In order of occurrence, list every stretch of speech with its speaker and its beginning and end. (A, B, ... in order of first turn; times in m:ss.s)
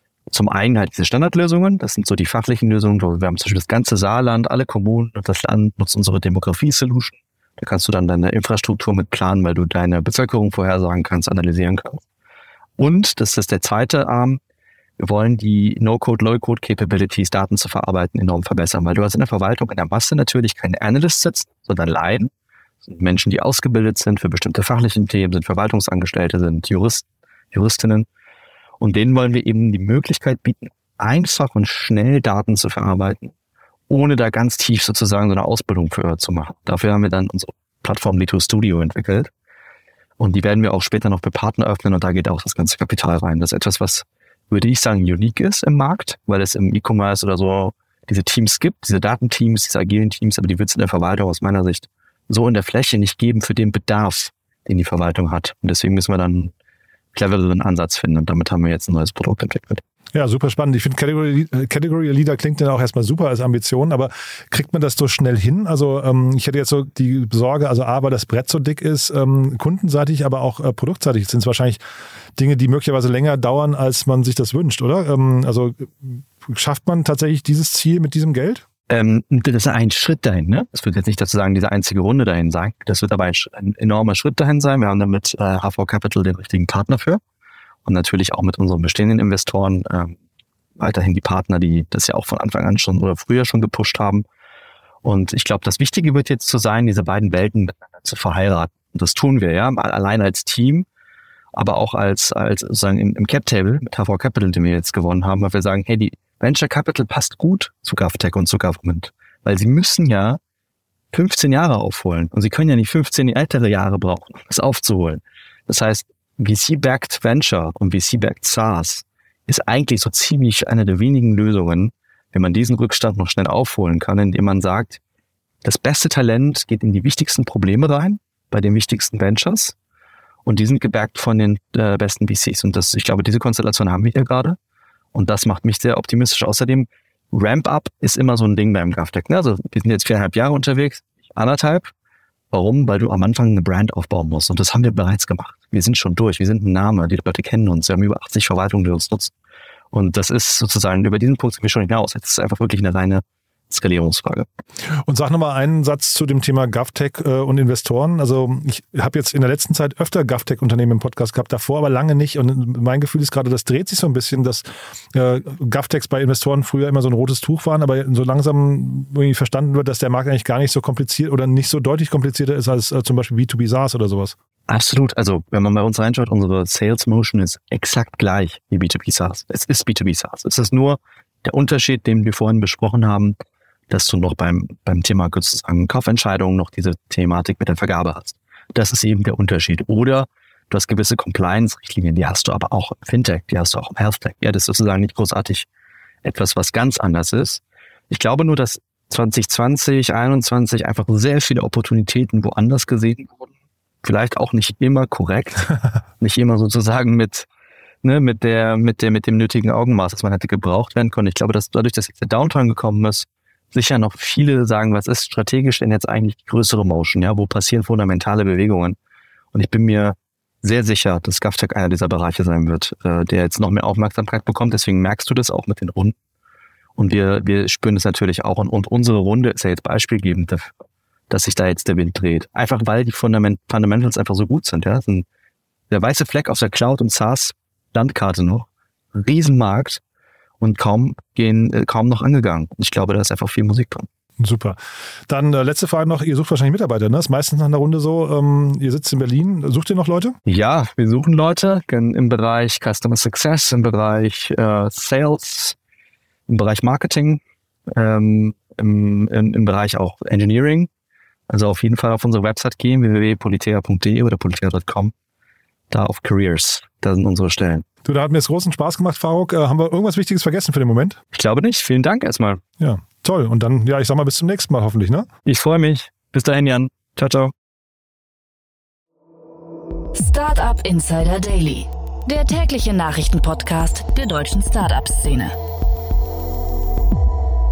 0:00.3-0:12.0 A
0:12.8-0:14.4 A
0:15.0-0:22.3 A
0:22.8-0:28.1 A
0:28.8-0:33.3 A
0:33.9-0:39.3 A
0:40.2-0:56.5 A
0:57.1-0:59.8 A
1:00.1-1:11.8 B
1:12.4-1:18.6 B
1:18.9-1:27.2 A
1:27.8-1:30.2 A
1:30.8-1:34.2 A
1:35.0-1:40.9 A
1:41.5-1:50.4 A
1:51.1-2:05.0 A
2:05.6-2:09.7 A
2:10.4-2:14.6 A
2:15.1-2:21.9 A
2:22.5-2:29.3 A
2:29.9-2:34.4 A
2:35.0-2:54.3 B
2:54.7-3:03.4 A
3:03.9-3:15.7 A
3:16.2-3:23.5 A
3:24.0-3:27.5 A
3:28.0-3:39.0 A
3:39.5-3:46.1 A
3:47.0-3:50.7 A
3:51.3-3:55.2 A
3:55.9-4:00.0 A
4:00.6-4:04.1 A
4:04.4-4:10.4 B
4:10.4-4:15.8 A
4:16.5-4:17.4 A
4:17.9-4:20.9 A
4:21.5-4:25.1 A
4:25.9-4:27.8 A
4:28.0-4:31.2 B
4:31.3-4:32.6 A
4:32.8-4:35.3 B
4:35.4-4:37.5 A
4:40.1-4:45.6 C